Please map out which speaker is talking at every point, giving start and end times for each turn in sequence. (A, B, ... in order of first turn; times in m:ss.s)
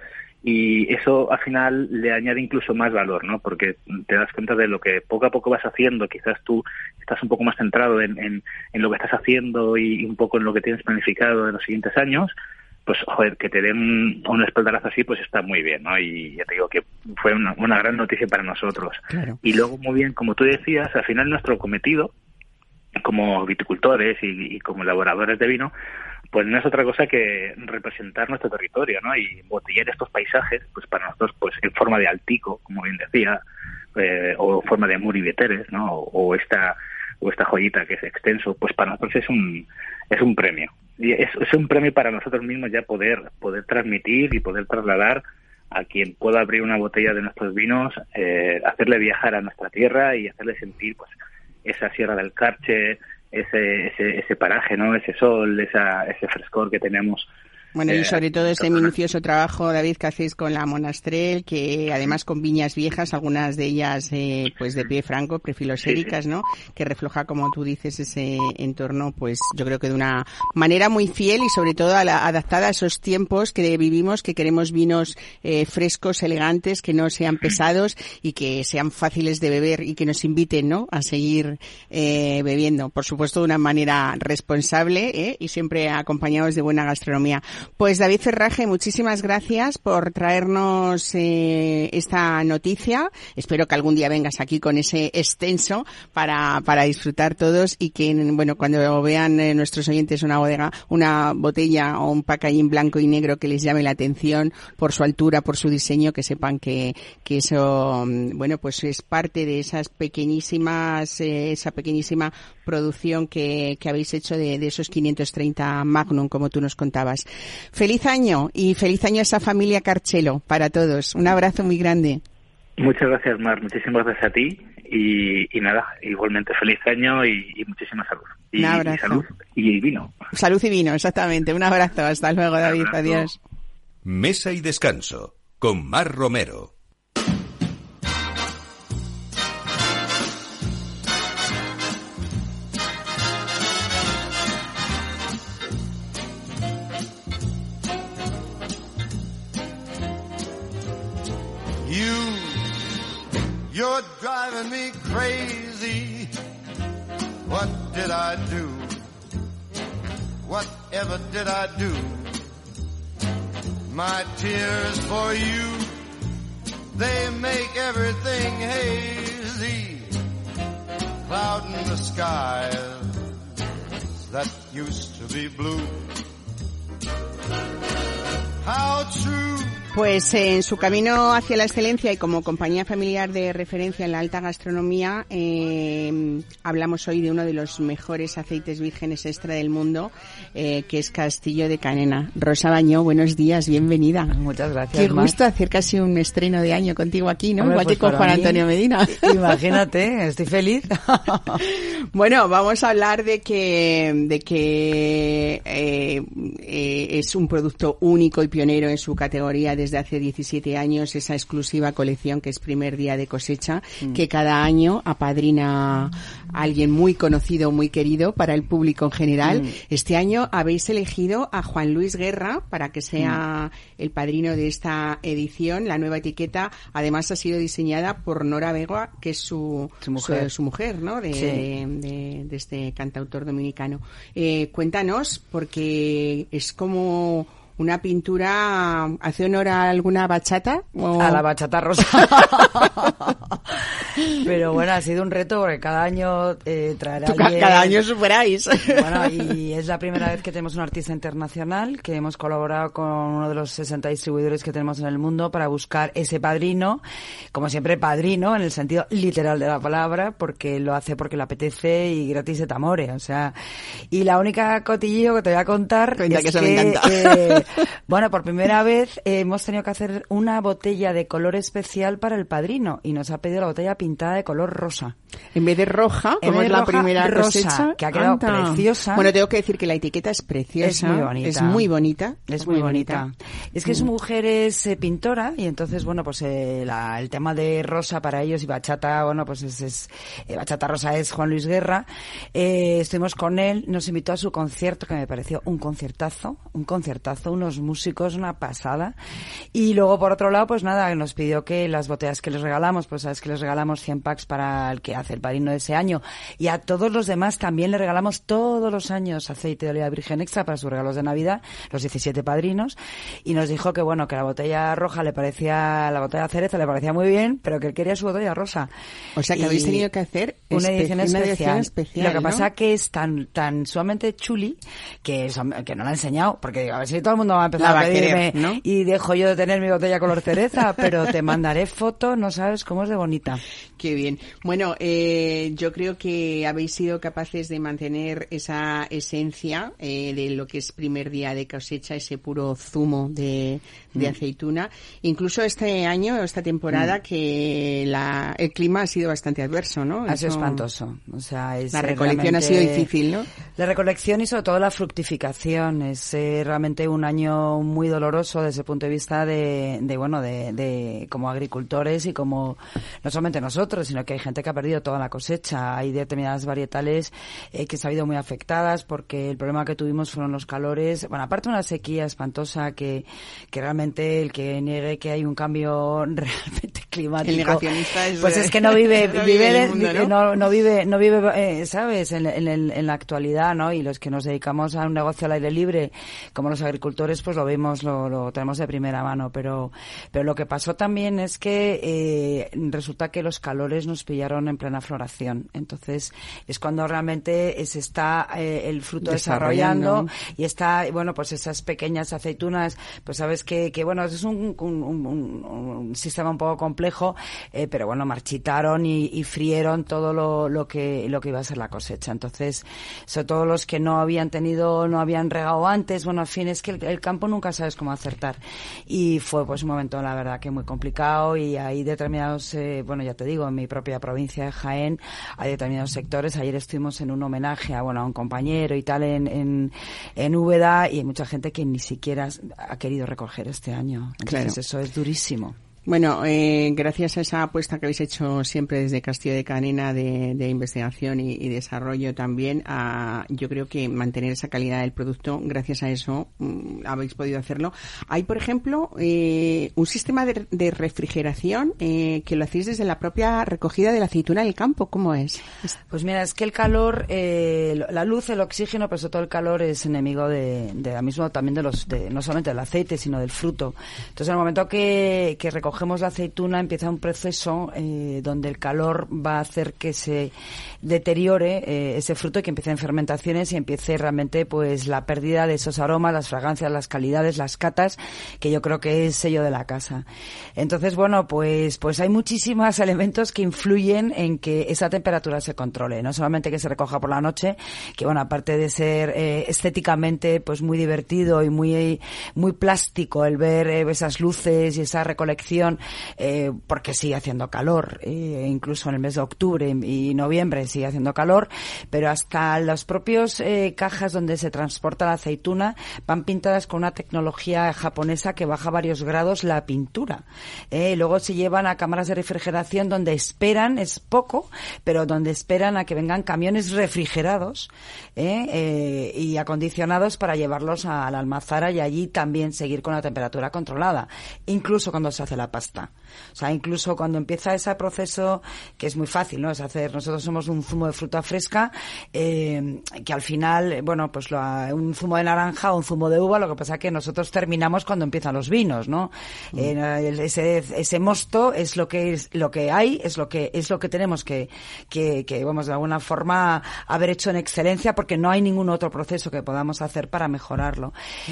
0:00.4-0:12.3 A
0:12.9-0:22.1 A
0:19.1-0:19.4 B
0:23.0-0:25.7 A
0:26.3-0:33.4 A
0:33.9-0:51.1 A
0:51.6-0:57.3 A
0:57.7-2:02.2 B
0:57.9-0:58.2 A
2:02.8-2:10.2 A
2:08.6-2:09.3 B
2:10.3-2:13.4 B
2:12.7-2:13.2 A
2:14.0-2:16.7 C
2:31.8-2:32.8 D
2:33.7-2:36.3 D
2:37.4-2:39.0 D
2:40.4-2:42.4 D
2:43.9-2:46.0 D
2:46.9-2:50.1 D
2:51.2-2:53.3 D
2:54.3-2:56.1 D
2:58.6-2:59.9 D
2:59.9-3:14.3 B
3:14.3-3:15.4 E
3:14.9-3:19.6 B
3:17.6-3:21.6 E
3:21.6-4:01.4 B
3:39.5-3:39.7 E
3:50.0-3:50.5 E
3:51.3-3:51.6 E
4:01.2-4:03.3 E
4:04.4-4:08.0 E
4:07.2-4:09.4 B
4:08.9-4:23.5 E
4:24.1-4:35.1 E
4:26.2-4:27.6 B
4:35.5-4:43.2 B
4:36.4-4:39.3 E
4:40.8-4:41.9 E
4:42.5-4:59.1 E
4:59.7-5:18.9 E
5:19.4-5:22.6 B
5:19.5-5:20.1 E
5:20.7-5:33.6 E
5:27.8-5:28.8 B
5:34.0-5:50.8 B
5:50.3-5:53.1 E
5:51.9-5:53.4 B
5:53.8-6:17.9 E
6:17.4-6:20.3 B
6:18.4-7:15.8 E
6:39.2-6:40.3 B
7:14.4-7:14.8 B
7:16.1-7:35.9 B
7:36.1-8:00.2 E
8:00.8-9:11.1 E